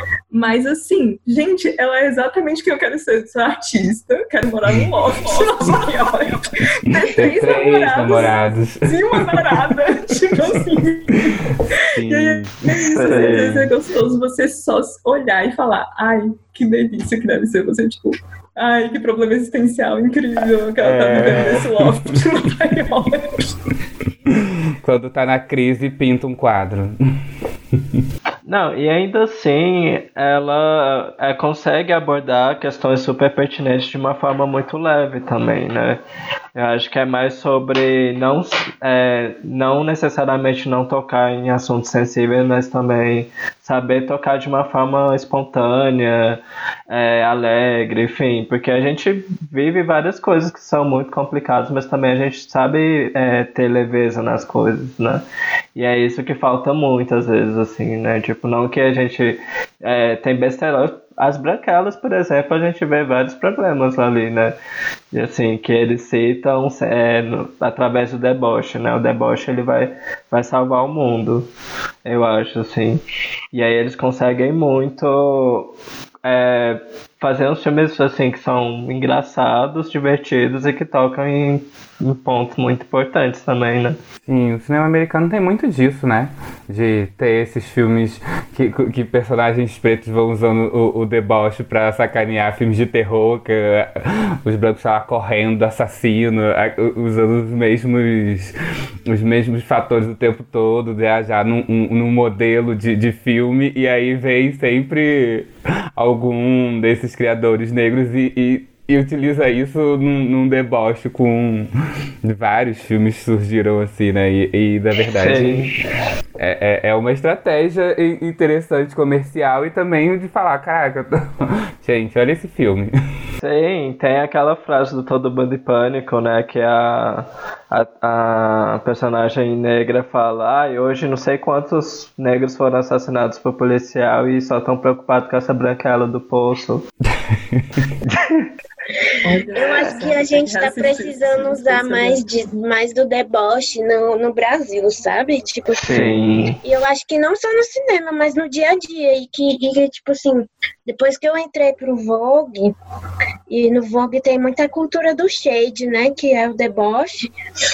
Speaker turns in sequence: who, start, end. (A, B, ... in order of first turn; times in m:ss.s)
0:00.3-0:23.4 A
0:07.1-0:09.8 B
0:11.9-0:13.5 B
0:12.9-0:13.7 C
0:20.8-0:22.0 B
0:24.3-0:26.9 B
0:27.7-0:28.0 B
0:28.4-0:36.0 C
0:36.5-1:04.6 C
1:05.1-1:11.5 C
1:12.0-1:24.0 C
1:24.2-1:51.7 B
1:52.2-1:55.7 B
1:55.2-1:55.8 C
1:56.4-2:02.9 B
2:03.4-2:16.9 C
2:17.3-2:17.9 B
2:18.1-2:18.4 C
2:19.1-2:32.8 D
2:19.2-2:22.2 A
2:25.8-2:26.6 C
2:33.5-2:37.3 D